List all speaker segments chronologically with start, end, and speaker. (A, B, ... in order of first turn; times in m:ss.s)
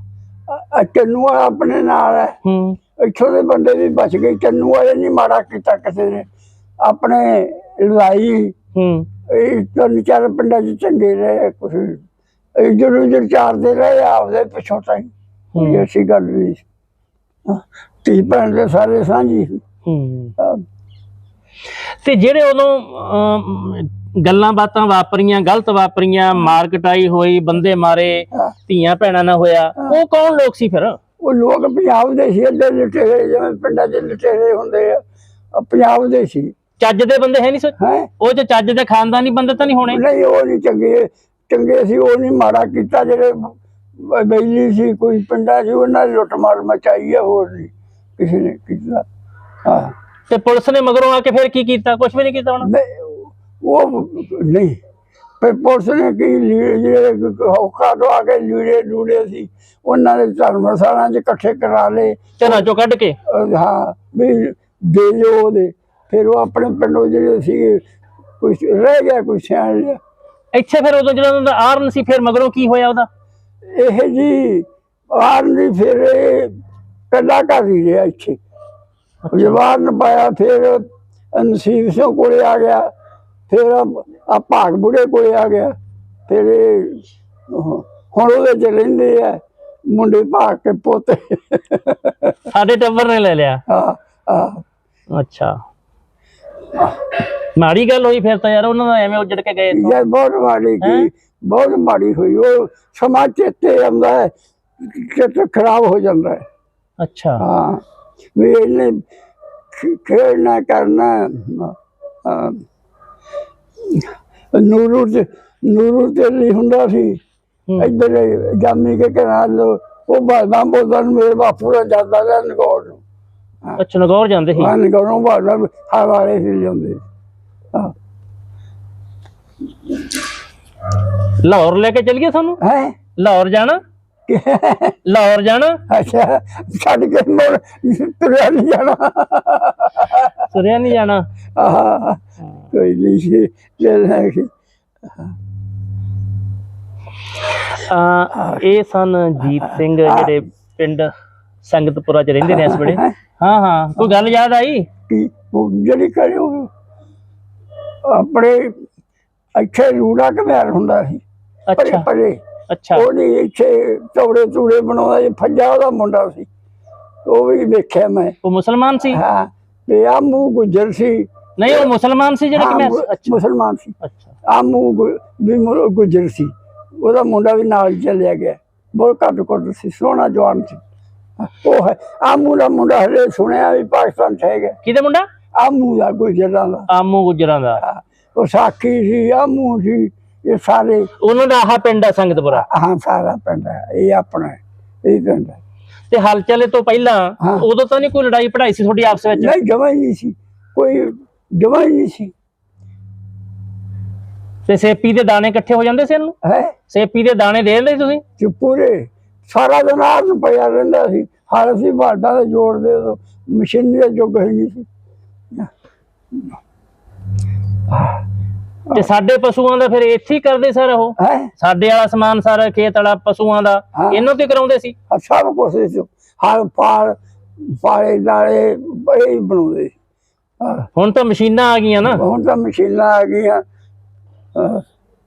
0:00.5-0:02.4 A
0:02.4-0:02.8 B
0:03.0-0:06.3 A
0:06.8-0:08.5 A
0:08.7-0:09.1 B
0:09.3-0:12.0 A
0:12.5-0:16.6 A
0:15.5-0:15.8 B
0:17.4-0:19.6 A
0:19.8-0:20.3 B
0:20.4-0:20.6 A
0:22.0-0:31.0 B
0:31.2-0:36.5 A
0:36.8-0:40.0 B
0:37.8-0:38.1 A
0:39.9-0:49.0 A
0:49.6-0:49.9 A
0:50.3-0:52.7 B
0:52.6-0:54.8 A
0:55.4-1:02.6 A
1:02.4-1:03.2 B
1:03.2-1:07.8 A
1:08.4-1:10.0 A
1:10.5-1:13.1 B
1:13.6-1:16.5 A
1:17.1-1:18.4 A
1:19.2-1:19.6 B
1:19.3-1:22.9 A
1:23.5-1:25.7 A
1:26.3-1:32.4 A
1:32.5-1:33.6 B
1:33.7-1:34.6 A
1:35.1-1:35.6 B
1:37.6-1:40.0 B
1:39.7-1:46.4 A
1:40.8-1:41.1 B
1:47.0-1:47.4 B
1:47.4-1:47.8 A
1:48.4-1:49.0 A
1:49.7-1:52.6 A
1:53.8-1:57.2 A
1:57.8-2:03.0 A
2:03.8-2:04.8 B
2:04.5-2:07.0 A
2:11.3-2:12.6 B
2:12.6-2:13.0 A
2:13.2-2:13.8 B
2:14.3-2:15.0 A
2:15.0-2:15.8 B
2:15.9-2:20.5 A
2:20.5-2:21.2 B
2:21.6-2:24.5 A
2:27.6-2:31.1 B
2:29.6-2:30.3 A
2:31.6-2:34.9 B
2:32.4-2:33.1 A
2:35.1-2:36.7 A
2:38.0-2:38.8 A
2:39.5-2:41.2 A
2:41.7-2:42.1 B
2:41.8-2:42.4 A
2:42.7-2:43.1 B
2:42.9-2:46.5 A
2:47.2-2:48.4 A
2:48.4-2:49.2 B
2:49.1-2:51.9 A
2:51.6-2:53.4 B
2:52.5-2:53.9 A
2:54.0-2:54.3 B
2:54.4-3:00.8 A
3:01.4-3:04.8 A
3:04.8-3:05.2 B
3:05.6-3:06.9 A
3:06.9-3:07.8 B
3:07.8-3:11.1 A
3:11.2-3:12.6 B
3:12.5-3:15.6 A
3:16.1-3:19.6 B
3:17.4-3:17.6 A
3:19.4-3:22.3 A
3:24.6-3:26.4 B
3:26.4-3:26.7 A
3:26.9-3:28.2 B
3:28.4-3:34.9 A
3:37.9-3:38.2 A
3:38.9-3:44.9 B
3:41.2-3:41.5 A
3:43.9-3:44.2 A
3:45.1-3:49.9 A
3:50.6-3:50.9 A
3:51.0-3:52.2 B
3:52.1-3:53.6 A
3:54.5-3:54.8 A